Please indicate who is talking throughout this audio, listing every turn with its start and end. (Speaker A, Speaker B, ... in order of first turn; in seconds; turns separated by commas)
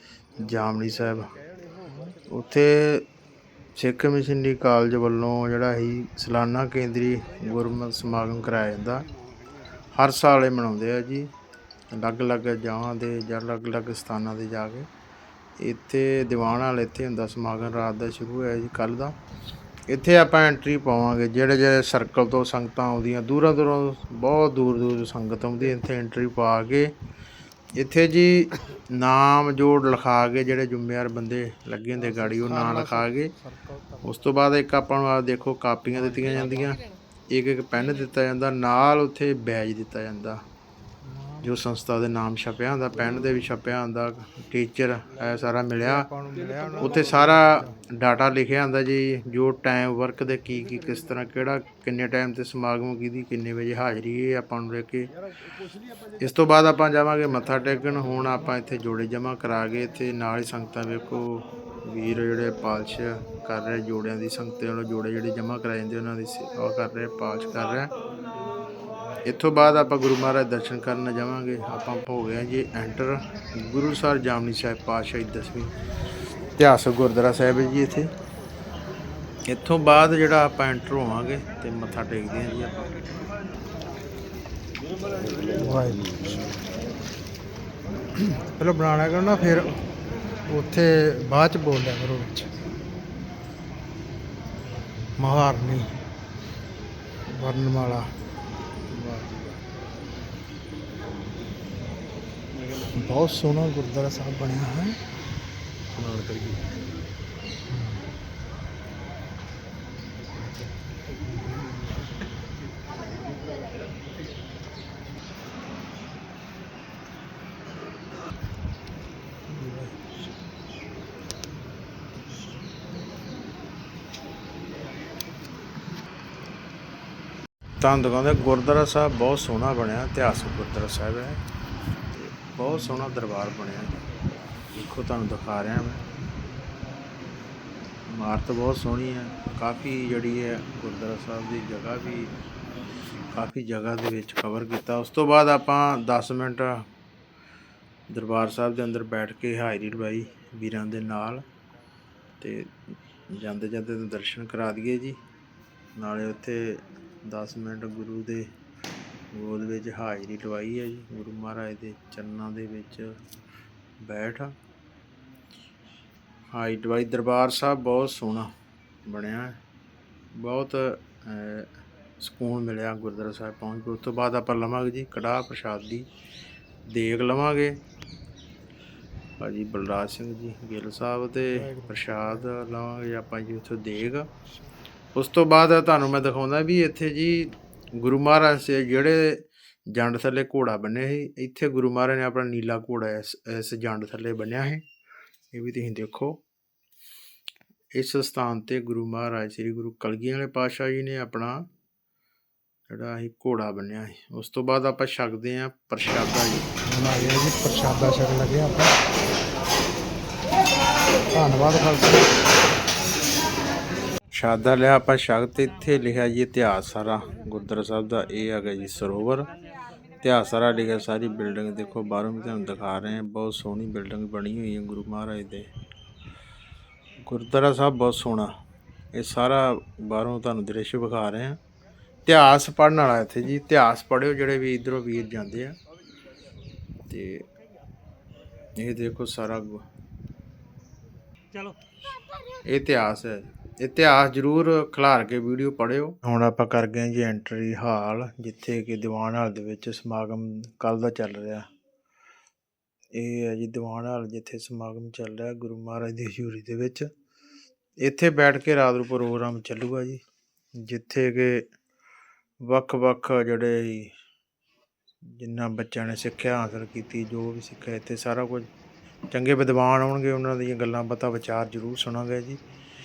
Speaker A: 0.4-1.3, Speaker B: 1.9-2.1, Speaker A: 2.3-3.1, Speaker A: 3.8-9.1, Speaker A: 9.9-11.3, Speaker A: 11.9-14.9, Speaker A: 15.6-19.1, Speaker A: 19.9-26.9, Speaker A: 27.8-33.3, Speaker B: 32.1-34.1, Speaker A: 34.0-40.4, Speaker B: 36.2-36.5, Speaker B: 41.1-41.4, Speaker A: 41.4-46.1, Speaker B: 45.8-47.7, Speaker A: 46.8-55.1, Speaker A: 56.2-67.9, Speaker A: 69.3-75.7, Speaker A: 76.6-78.1, Speaker A: 79.5-83.1, Speaker B: 85.5-86.4, Speaker B: 88.4-89.7, Speaker B: 90.5-92.5, Speaker B: 95.2-96.0, Speaker B: 97.3-98.0, Speaker B: 98.9-99.3, Speaker B: 102.8-105.0, Speaker B: 106.0-106.5, Speaker B: 107.7-108.0, Speaker B: 119.5-119.9, Speaker A: 127.8-131.4, Speaker A: 132.1-133.9, Speaker A: 134.8-136.0, Speaker A: 138.1-142.3, Speaker A: 143.3-146.8, Speaker A: 148.1-151.4, Speaker A: 152.4-152.7, Speaker A: 153.3-155.2, Speaker A: 155.9-158.4, Speaker A: 159.3-163.1, Speaker A: 164.0-164.5, Speaker A: 166.5-168.5, Speaker A: 169.1-169.6, Speaker A: 170.3-171.7, Speaker A: 172.2-176.1, Speaker A: 176.9-177.8, Speaker A: 179.4-184.3, Speaker B: 181.7-182.0, Speaker A: 185.1-194.8, Speaker A: 195.5-196.4, Speaker A: 197.9-201.7, Speaker A: 202.9-206.8, Speaker B: 206.9-208.9, Speaker B: 211.3-212.3, Speaker A: 214.3-219.5, Speaker A: 220.2-225.7, Speaker A: 227.3-228.5, Speaker A: 229.1-231.6, Speaker A: 232.3-235.8, Speaker A: 237.1-237.4, Speaker A: 238.8-239.9, Speaker A: 242.7-251.7, Speaker A: 253.1-257.1, Speaker A: 258.0-260.2, Speaker A: 260.8-261.6, Speaker A: 262.6-264.1, Speaker A: 265.3-268.7, Speaker A: 269.3-272.6